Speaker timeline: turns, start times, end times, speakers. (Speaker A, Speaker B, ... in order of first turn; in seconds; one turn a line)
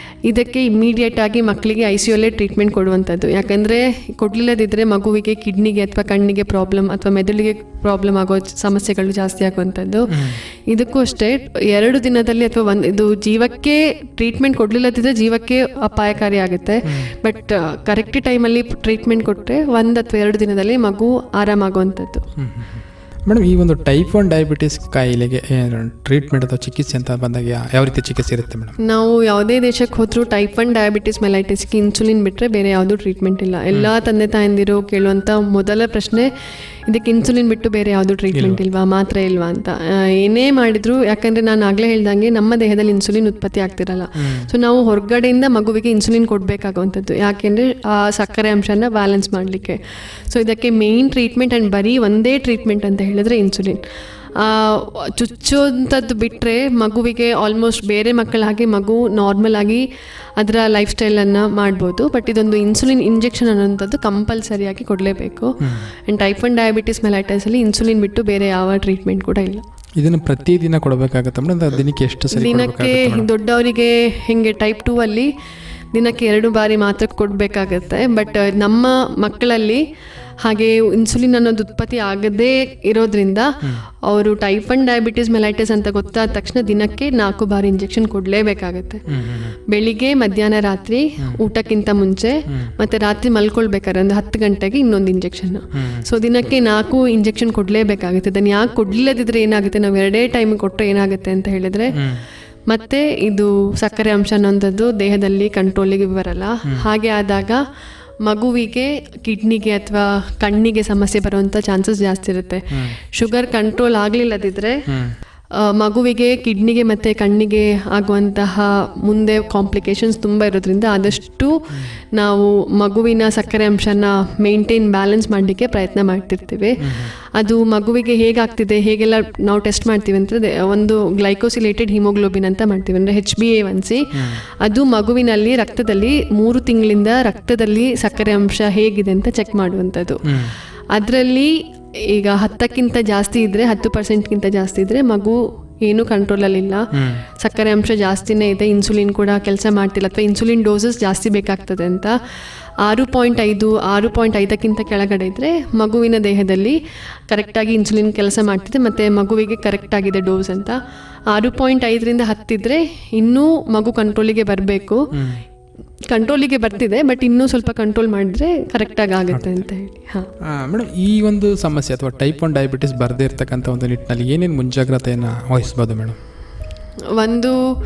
Speaker A: 0.3-22.2
Speaker B: 22.4-28.7
Speaker A: 28.8-36.3
Speaker A: 36.9-53.8
Speaker B: 38.3-38.6
Speaker A: 54.4-59.8
Speaker A: 60.4-69.6
Speaker B: 65.6-65.9
Speaker B: 70.0-73.3
Speaker A: 72.3-75.3
Speaker A: 75.9-79.8
Speaker A: 80.4-83.5
Speaker A: 84.0-89.0
Speaker B: 89.1-89.6
Speaker A: 89.7-101.9
Speaker B: 95.7-96.0
Speaker B: 102.0-102.2
Speaker A: 102.7-107.6
Speaker A: 108.2-114.7
Speaker B: 114.9-115.1
Speaker A: 115.6-121.5
Speaker A: 122.1-126.8
Speaker B: 126.8-127.1
Speaker A: 127.3-134.0
Speaker A: 134.6-140.2
Speaker B: 140.3-140.5
Speaker A: 140.9-141.5
Speaker A: 142.1-146.8
Speaker B: 146.9-147.2
Speaker A: 147.4-152.1
Speaker A: 152.8-156.8
Speaker A: 157.3-160.8
Speaker A: 161.3-165.0
Speaker B: 165.1-165.4
Speaker A: 166.1-170.3
Speaker B: 169.3-169.6
Speaker B: 170.5-176.2
Speaker A: 177.1-177.6